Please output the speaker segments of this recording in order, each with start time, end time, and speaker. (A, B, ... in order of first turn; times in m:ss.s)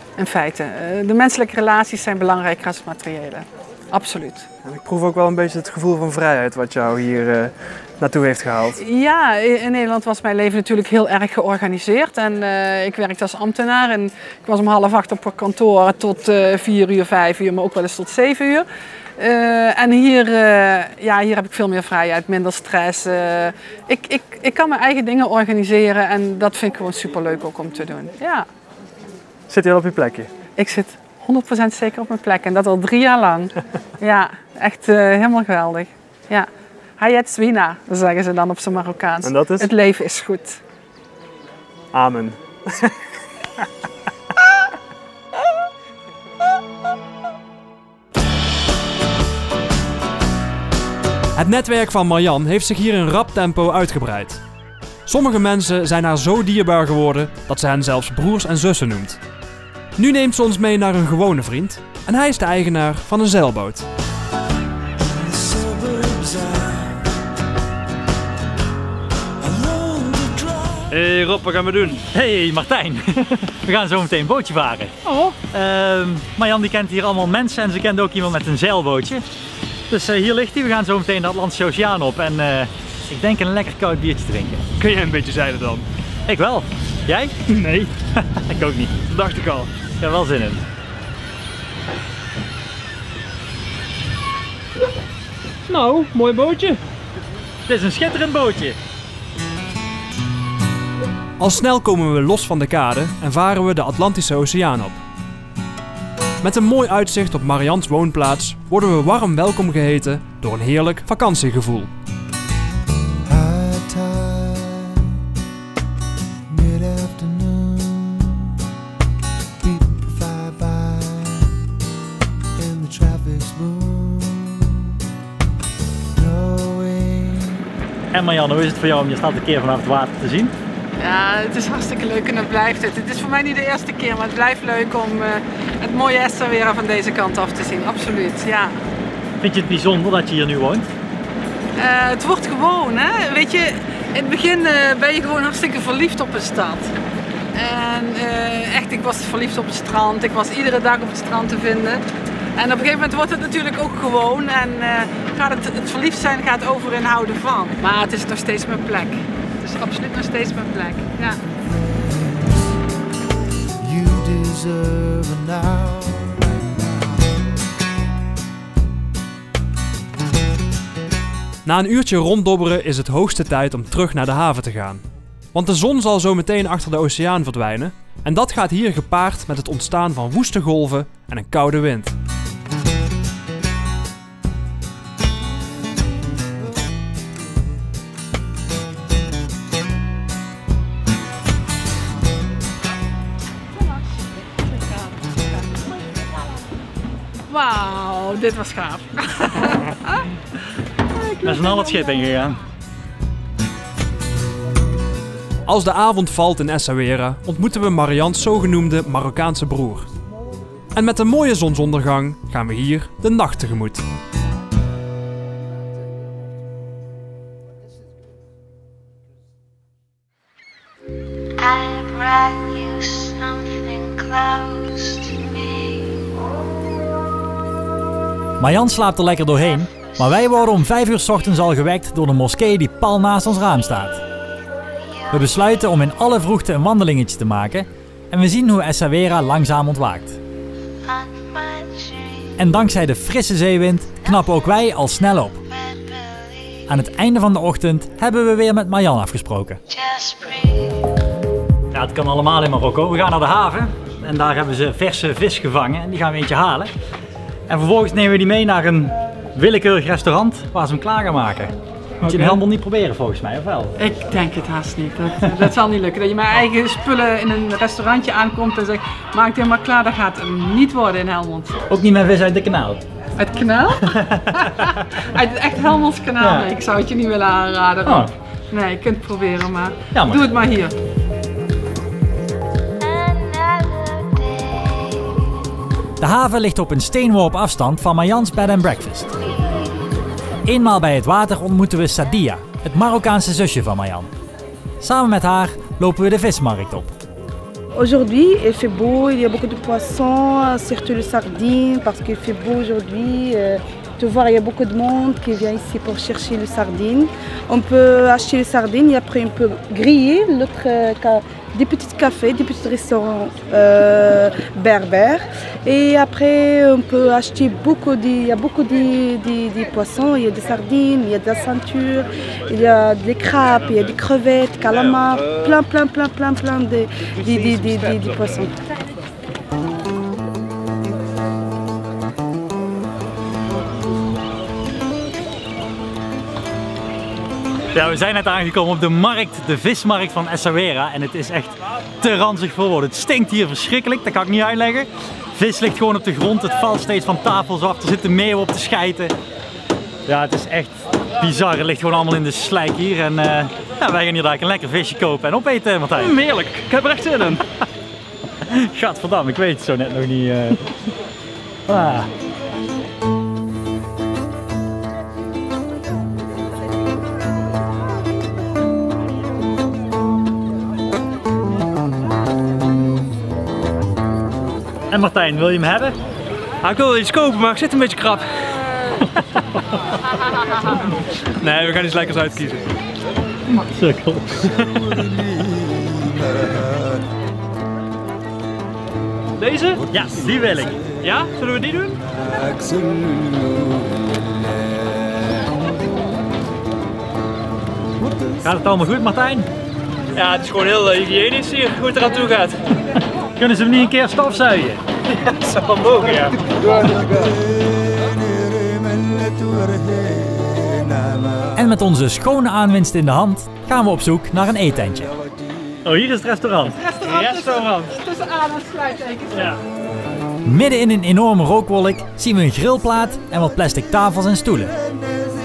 0:00.2-0:04.5 A
0:04.6-0:08.8 B
0:08.8-0:18.7 A
0:19.2-0:28.5 A
0:29.5-0:30.3 B
0:30.6-0:36.5 A
0:37.0-0:40.6 A
0:39.2-0:39.7 B
0:41.9-0:43.0 B
0:51.4-0:54.4 B
0:55.1-0:59.2 B
1:00.0-1:03.9 B
1:05.1-1:06.8 C
1:09.4-1:10.7 C
1:10.9-1:12.0 B
1:12.1-1:15.0 D
1:15.0-1:15.4 B
1:15.5-1:19.2 D
1:19.9-1:24.6 D
1:24.8-1:25.9 B
1:26.3-1:27.3 D
1:27.5-1:27.9 B
1:28.2-1:28.9 D
1:29.1-1:29.7 B
1:30.0-1:30.6 D
1:35.7-1:36.8 B
1:37.7-1:38.8 D
1:41.4-1:45.0 B
1:46.4-1:51.9 B
1:53.3-1:55.2 C
1:56.5-1:58.5 C
1:59.6-2:01.6 C
2:02.6-2:05.0 C
2:06.2-2:07.7 C
2:08.1-2:10.5 D
2:11.0-2:18.8 A
2:19.4-2:20.9 D
2:21.8-2:26.9 A
2:27.6-2:32.0 A
2:32.6-2:41.4 A
2:41.5-2:42.8 C
2:43.8-2:47.4 C
2:51.6-3:02.2 B
3:14.7-3:15.3 A
3:17.5-3:20.3 A
3:21.1-3:22.2 A
3:21.4-3:22.6 D
3:25.7-3:30.1 B
3:30.9-3:34.1 B
3:41.6-3:46.3 E
3:48.6-3:54.2 D
3:55.1-3:55.5 E
3:55.3-4:00.4 D
4:01.0-4:02.5 E
4:02.6-4:05.6 D
4:05.7-4:06.8 E
4:06.9-4:09.8 D
4:09.9-4:11.1 E
4:11.9-4:16.9 D
4:17.7-4:24.0 D
4:22.2-4:22.6 B
4:24.0-4:31.8 A
4:31.9-4:33.1 D
4:33.4-4:41.0 A
4:34.1-4:34.9 D
4:36.4-4:36.7 D
4:38.0-4:38.3 D
4:40.2-4:40.4 D
4:43.0-4:45.5 E
4:46.2-4:49.3 D
4:49.4-4:49.9 E
4:50.6-4:54.3 D
4:55.0-4:57.1 D
4:57.9-5:28.8 F
5:37.9-5:49.3 D
5:50.3-5:56.4 D
5:56.2-5:57.6 B
5:58.7-6:00.8 D
6:01.9-6:02.3 D
6:15.1-6:16.2 D
6:16.8-6:18.9 B
6:21.6-6:22.9 B
6:23.7-6:25.1 D
6:29.6-6:30.1 B
6:30.1-6:31.0 D
6:31.2-6:32.2 B
6:32.8-6:33.8 C
6:38.6-6:39.7 D
6:40.3-6:42.9 B
6:43.6-6:45.0 D
6:45.4-6:47.5 B
6:51.7-6:55.3 D
6:56.0-6:57.9 D
6:57.0-6:59.7 A
7:00.6-7:05.0 D